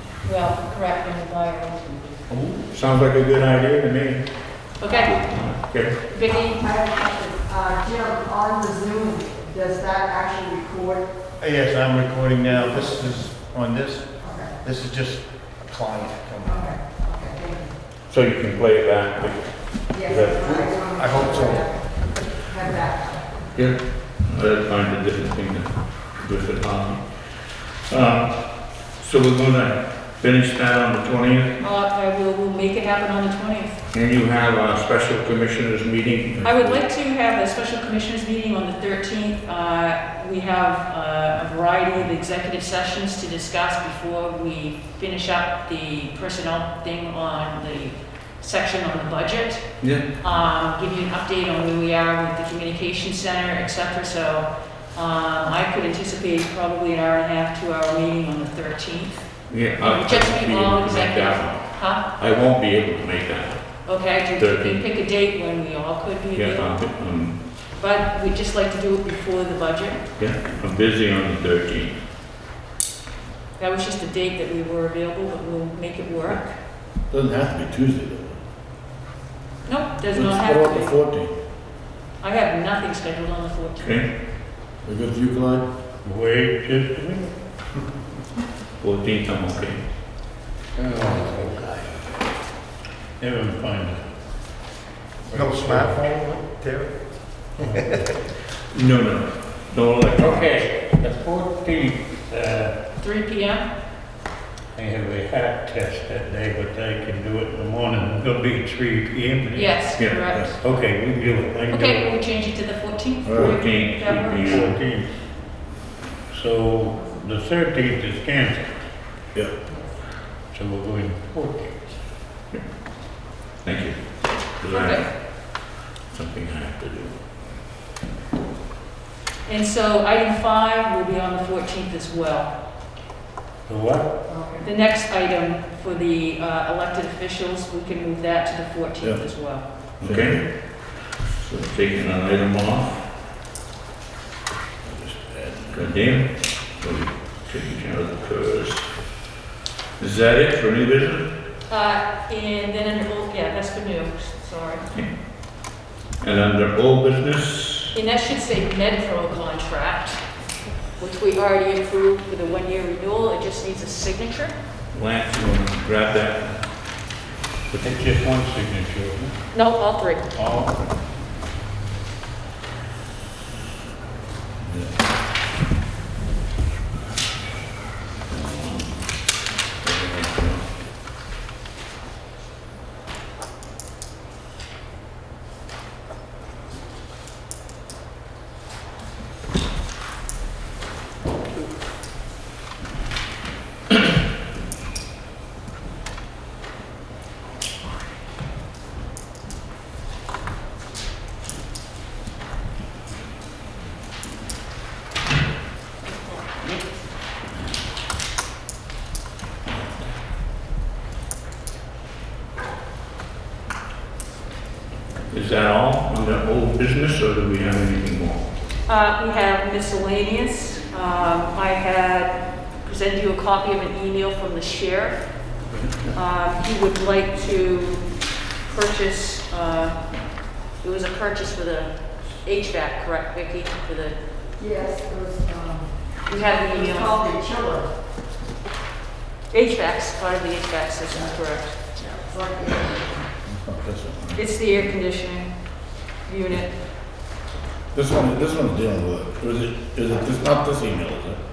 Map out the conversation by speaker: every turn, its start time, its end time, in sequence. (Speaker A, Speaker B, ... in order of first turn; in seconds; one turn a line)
Speaker A: 0.2-2.0
Speaker B: 2.7-6.0
Speaker A: 4.8-5.5
Speaker A: 6.1-6.6
Speaker C: 6.2-11.2
Speaker D: 11.4-16.5
Speaker C: 12.5-12.8
Speaker C: 14.2-14.6
Speaker E: 14.2-14.5
Speaker C: 16.4-17.7
Speaker B: 18.1-20.8
Speaker C: 19.9-23.5
Speaker D: 20.9-21.7
Speaker B: 23.5-31.6
Speaker A: 31.6-33.9
Speaker B: 33.9-36.8
Speaker A: 36.4-62.1
Speaker B: 49.8-50.1
Speaker B: 59.5-64.8
Speaker A: 63.8-66.9
Speaker B: 66.3-67.4
Speaker A: 67.7-70.0
Speaker B: 70.2-72.0
Speaker A: 73.6-76.6
Speaker E: 77.1-78.4
Speaker A: 79.6-81.0
Speaker E: 80.1-81.4
Speaker A: 82.2-84.0
Speaker B: 83.8-84.2
Speaker E: 84.8-85.7
Speaker F: 86.0-87.3
Speaker B: 88.8-89.8
Speaker F: 90.8-92.0
Speaker F: 93.2-94.0
Speaker F: 95.3-96.0
Speaker D: 95.3-97.0
Speaker F: 97.6-98.0
Speaker D: 97.6-98.0
Speaker B: 98.7-100.5
Speaker F: 100.2-102.8
Speaker A: 103.0-103.7
Speaker F: 104.7-110.0
Speaker A: 109.5-110.6
Speaker B: 109.9-110.3
Speaker F: 110.5-112.1
Speaker A: 111.7-114.6
Speaker E: 113.2-113.5
Speaker B: 113.4-114.8
Speaker F: 114.4-115.5
Speaker F: 116.3-118.8
Speaker F: 120.5-122.0
Speaker B: 123.6-127.2
Speaker A: 124.7-125.1
Speaker A: 129.4-132.5
Speaker F: 133.7-134.1
Speaker C: 134.2-134.6
Speaker A: 134.6-139.7
Speaker B: 140.0-143.2
Speaker E: 140.0-140.5
Speaker E: 144.8-146.0
Speaker B: 145.7-149.0
Speaker B: 150.0-151.3
Speaker A: 151.7-154.9
Speaker B: 156.2-157.9
Speaker A: 157.9-160.2
Speaker A: 160.9-164.5
Speaker B: 164.9-166.7
Speaker F: 167.7-169.4
Speaker A: 169.5-170.3
Speaker F: 170.3-170.9
Speaker B: 178.3-180.7
Speaker B: 215.3-218.5
Speaker A: 218.8-225.2
Speaker B: 225.7-226.1
Speaker A: 226.1-230.2
Speaker A: 230.8-234.2
Speaker C: 234.6-237.9
Speaker A: 236.3-237.2
Speaker A: 239.5-242.0
Speaker C: 241.9-243.3
Speaker E: 243.4-244.4
Speaker A: 244.3-246.8
Speaker E: 247.9-251.4